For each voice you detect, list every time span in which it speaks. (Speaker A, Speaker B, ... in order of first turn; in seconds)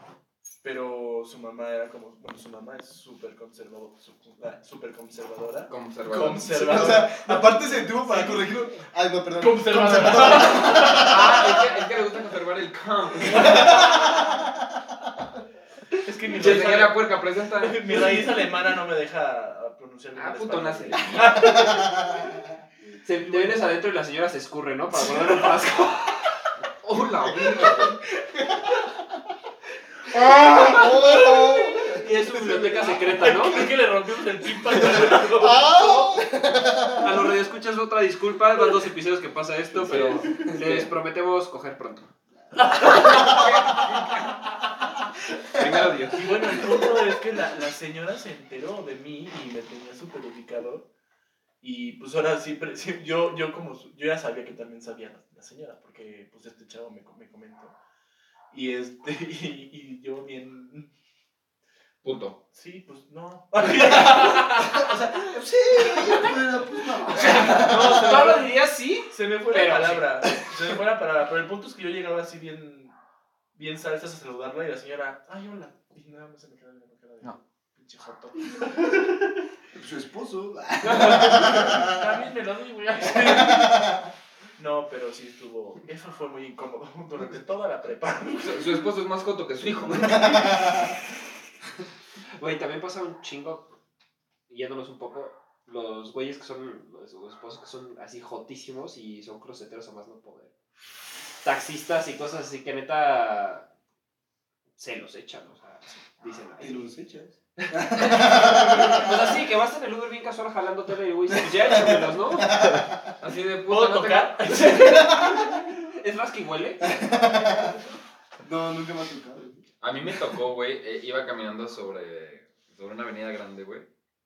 Speaker A: 0.6-8.5, 9.4-11.6, 13.3-14.1, 16.0-17.0, 17.6-22.0, 23.2-23.6, 32.6-35.7, 39.9-40.4, 42.5-43.5, 46.1-50.9, 51.6-57.7, 58.5-60.9, 62.5-65.0, 67.2-68.5, 69.1-72.9, 73.5-79.2, 80.8-83.8, 84.6-88.8, 113.7-115.1
Speaker B: 5.7-6.5, 10.4-14.0, 16.3-18.2, 20.1-21.7, 26.8-28.0, 39.8-40.9, 42.8-44.4, 45.5-46.5, 62.0-62.4, 88.4-90.8, 113.2-114.8, 119.8-123.8
Speaker C: 6.2-11.4, 13.3-14.6, 21.4-22.5, 27.3-28.9, 30.1-33.3, 34.6-37.3, 40.3-40.8, 42.8-43.9, 63.8-68.3, 79.7-82.2, 83.1-84.1, 90.2-90.9, 106.6-109.3, 111.3-113.1, 114.7-115.7, 116.8-117.8, 118.4-119.6
Speaker D: 23.0-26.4, 31.9-33.7, 37.0-42.1, 67.1-70.1, 92.4-93.7, 94.5-100.5, 101.4-103.7, 104.8-106.9, 107.6-112.6, 114.7-116.9